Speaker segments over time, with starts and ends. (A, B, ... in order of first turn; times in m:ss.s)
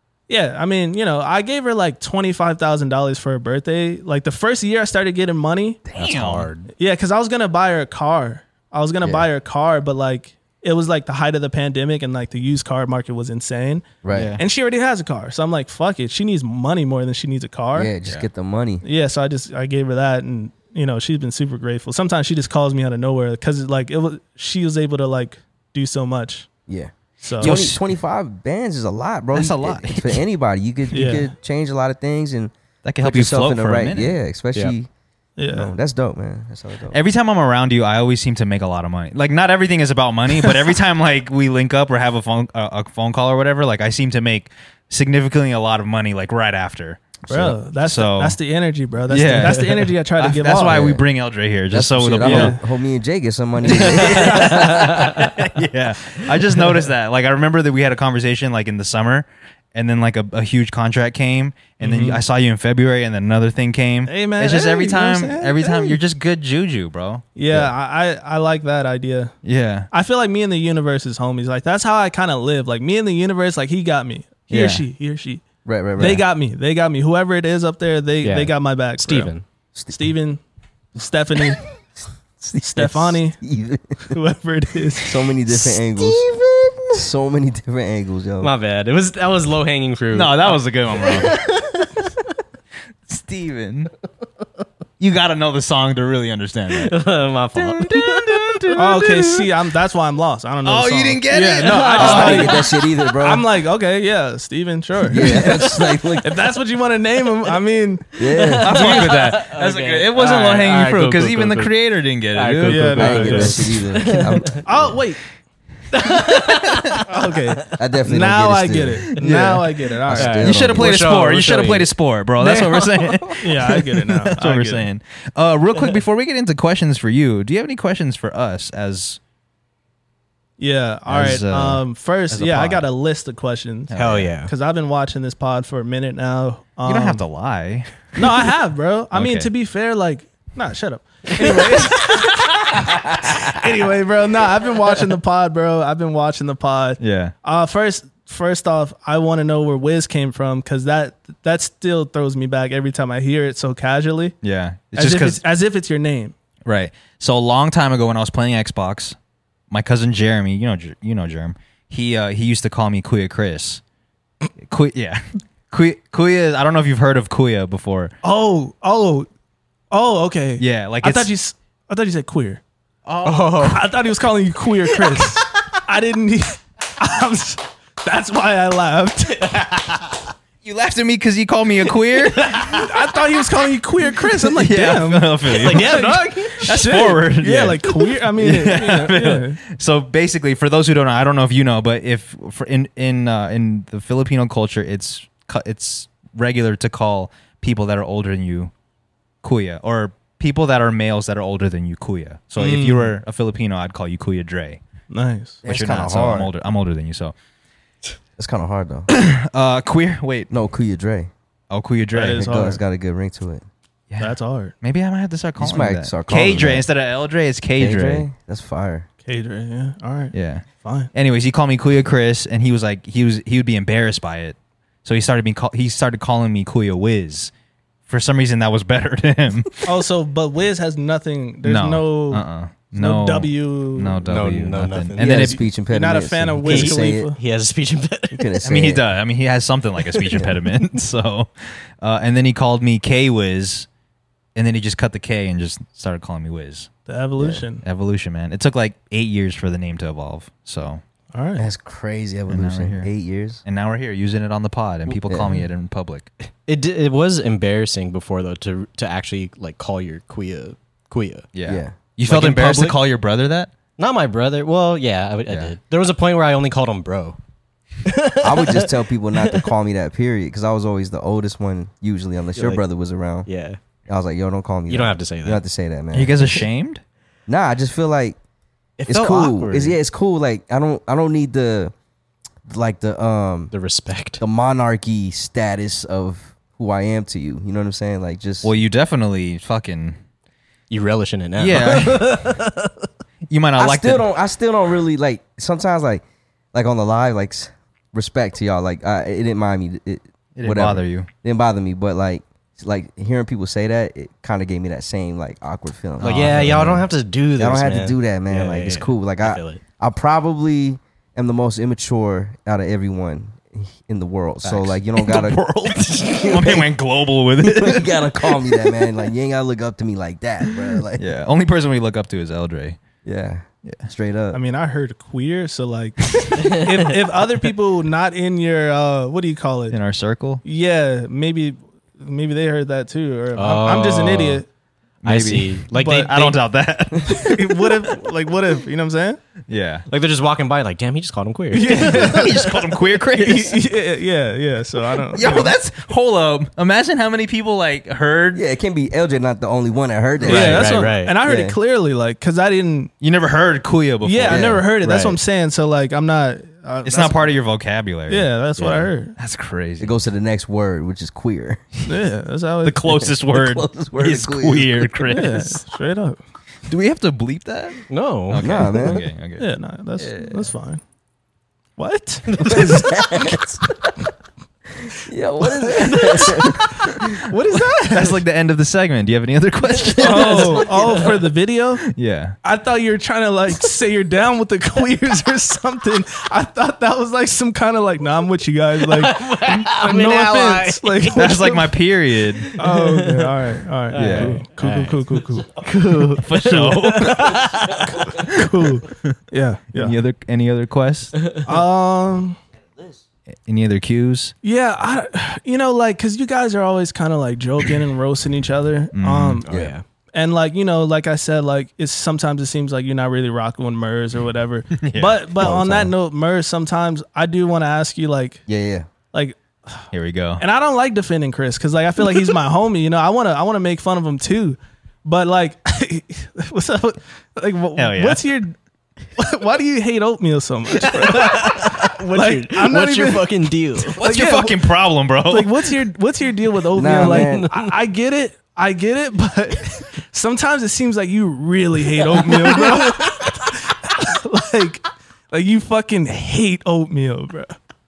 0:00.3-0:05.8 A
0:05.9-0:06.5 B
0:05.9-0:06.7 C
0:06.7-0:17.9 A
0:09.0-0:09.3 D
0:14.0-0:14.3 D
0:14.1-0:14.4 B
0:17.7-0:18.8 D
0:18.8-0:26.5 A
0:26.7-0:34.9 D
0:27.2-0:27.5 A
0:27.4-0:27.8 B
0:29.3-0:30.2 B
0:30.9-0:31.3 A
0:32.8-0:34.2 B
0:35.4-0:35.7 A
0:35.5-0:37.0 D
0:36.9-0:48.4 B
0:47.3-0:47.6 D
0:47.3-0:50.9 A
0:49.1-0:52.6 B
0:50.6-0:51.0 D
0:51.7-0:55.0 D
0:52.2-0:52.5 C
0:53.9-0:54.6 A
0:54.0-1:07.2 B
0:54.0-0:55.2 C
1:01.8-1:02.2 A
1:04.0-1:06.0 A
1:07.3-1:09.3 A
1:09.4-1:09.9 B
1:09.9-1:15.4 A
1:14.5-1:14.8 B
1:15.6-1:16.2 D
1:16.0-1:19.3 A
1:18.2-1:19.4 C
1:19.7-1:20.1 D
1:19.9-1:20.4 A
1:20.9-1:21.6 A
1:22.4-1:24.2 D
1:22.6-1:23.4 A
1:24.1-1:25.2 A
1:25.0-1:26.2 D
1:26.0-1:26.9 C
1:26.9-1:28.5 D
1:28.4-1:32.1 C
1:30.1-1:31.4 B
1:33.1-1:33.9 B
1:35.0-1:37.0 B
1:36.7-1:38.8 C
1:37.5-1:39.3 B
1:38.8-1:42.6 A
1:40.6-1:42.6 B
1:41.3-1:42.6 C
1:42.0-1:43.4 D
1:43.2-1:48.2 A
1:45.0-1:46.3 D
1:45.2-1:45.5 C
1:48.2-1:48.9 D
1:48.2-1:51.7 C
1:48.6-1:53.5 B
1:52.3-1:54.6 C
1:52.6-1:53.6 A
1:53.0-1:54.9 D
1:54.6-1:55.2 A
1:55.9-1:57.0 C
1:56.4-1:57.0 B
1:57.0-2:00.4 A
1:57.7-1:59.1 D
1:59.2-1:59.7 B
2:00.1-2:00.9 D
2:00.1-2:03.3 C
2:00.4-2:09.2 B
2:03.4-2:04.9 A
2:10.6-2:17.2 A
2:11.1-2:12.8 B
2:13.9-2:14.3 B
2:14.0-2:14.5 C
2:16.8-2:18.2 B
2:18.2-2:34.4 A
2:19.1-2:19.5 B
2:21.4-2:22.1 C
2:23.3-2:23.6 B
2:27.0-2:27.3 B
2:34.4-2:35.4 B
2:35.0-2:36.3 A
2:36.6-2:39.2 B
2:39.7-2:43.8 B
2:44.6-2:48.1 B
2:48.2-2:49.3 A
2:49.9-2:52.6 A
2:50.6-2:51.3 B
2:53.0-2:53.7 B
2:53.2-2:53.8 C
2:53.6-3:00.0 A
2:55.0-2:55.3 C
3:00.6-3:02.9 B
3:02.5-3:09.6 A
3:04.5-3:18.7 B
3:05.5-3:06.7 C
3:19.4-3:24.8 B
3:22.6-3:23.1 A
3:25.1-3:25.6 A
3:25.6-3:26.5 D
3:25.6-3:27.3 B
3:28.4-3:29.1 D
3:29.1-3:30.5 B
3:30.5-3:31.3 D
3:31.7-3:32.5 B
3:32.1-3:32.8 A
3:32.3-3:33.6 D
3:34.1-3:38.3 B
3:34.2-3:34.7 A
3:35.6-3:36.8 D
3:37.8-3:39.0 D
3:39.2-3:41.1 A
3:40.3-3:47.5 B
3:48.1-3:49.9 B
3:49.8-3:54.2 A
3:51.6-3:55.6 B
3:54.2-3:55.6 C
3:55.2-3:57.3 D
3:55.9-3:57.4 A
3:56.6-3:58.5 C
3:58.3-3:59.0 D
3:58.6-4:03.9 B
4:00.1-4:00.4 C
4:04.5-4:06.9 B
4:07.0-4:07.8 A
4:07.4-4:07.6 D
4:07.8-4:11.0 B
4:11.3-4:11.7 A
4:11.6-4:13.6 D
4:12.5-4:13.1 B
4:13.6-4:16.3 B
4:15.3-4:15.6 D
4:16.7-4:21.5 C
4:21.5-4:23.7 B
4:21.6-4:21.9 D
4:22.2-4:23.0 C
4:24.0-4:27.4 C
4:25.5-4:25.7 B
4:28.0-4:29.7 C
4:28.4-4:33.5 D
4:32.6-4:32.8 C
4:33.4-4:33.8 C
4:34.1-4:36.4 D
4:34.9-4:35.6 C
4:36.1-4:37.0 B
4:37.5-4:38.4 D
4:39.0-4:40.0 C
4:39.1-4:41.9 D
4:42.7-4:43.7 D
4:43.7-4:44.4 C
4:44.4-4:48.7 D
4:48.6-4:50.2 B
4:50.9-4:52.9 C
4:51.6-4:52.4 B
4:53.5-4:54.3 B
4:53.8-5:15.6 D
5:00.6-5:01.3 B
5:06.2-5:09.8 C
5:06.2-5:06.7 B
5:14.6-5:14.9 C
5:15.2-5:18.1 B
5:16.2-5:16.8 D
5:17.6-5:21.2 D
5:21.2-5:23.0 B
5:23.2-5:24.6 D
5:24.5-5:30.0 A
5:29.9-5:30.6 B
5:30.6-5:34.6 A
5:33.6-5:34.6 C
5:35.2-5:37.9 B
5:35.2-5:36.6 C
5:36.0-5:36.3 A
5:37.3-5:39.4 A
5:39.7-5:40.0 B
5:40.1-5:42.6 C
5:41.7-5:42.6 A
5:41.9-5:43.8 B
5:43.4-5:45.7 A
5:45.3-5:48.6 B
5:48.5-5:51.8 D
5:50.4-5:51.4 C
5:50.4-5:53.1 A
5:50.5-5:50.8 B
5:53.2-5:54.7 B
5:54.2-5:57.5 A
5:54.4-5:54.8 D
5:55.0-5:55.4 C
5:57.0-5:58.5 B
5:58.3-5:59.3 A
5:58.8-5:59.1 C
5:59.4-6:00.1 B
6:00.0-6:01.8 D
6:02.0-6:03.3 A
6:02.8-6:05.8 B
6:03.3-6:05.2 D
6:05.3-6:06.4 A
6:06.9-6:09.7 B
6:08.1-6:09.1 C
6:08.6-6:09.2 D
6:09.6-6:11.0 A
6:12.0-6:13.1 A
6:12.5-6:13.0 C
6:12.6-6:13.9 D
6:15.0-6:17.2 D
6:15.8-6:16.7 A
6:16.1-6:16.5 C
6:17.4-6:18.4 A
6:18.0-6:21.2 B
6:20.2-6:21.3 C
6:20.2-6:22.0 A
6:22.1-6:22.6 B
6:22.6-6:31.9 A
6:29.0-6:31.7 C
6:31.3-6:32.7 B
6:32.6-6:38.2 C
6:32.8-6:35.7 A
6:34.1-6:34.6 B
6:36.4-6:37.7 B
6:38.0-6:40.2 A
6:38.4-6:39.3 B
6:39.9-6:41.4 B
6:41.6-6:42.6 A
6:43.6-6:44.5 B
6:44.6-6:49.7 A
6:49.1-6:49.6 B
6:49.6-6:50.0 C
6:49.7-6:49.9 D
6:50.3-6:58.6 A
6:55.0-6:55.4 B
6:55.6-6:56.1 D
6:58.7-6:59.1 D
6:59.3-7:00.0 A
7:00.1-7:00.6 B
7:00.6-7:08.8 A
7:08.0-7:08.4 B
7:09.4-7:14.8 A
7:11.1-7:14.2 C
7:14.2-7:15.8 B
7:15.5-7:27.7 A
7:16.9-7:17.7 D
7:17.0-7:17.9 C
7:22.4-7:23.1 C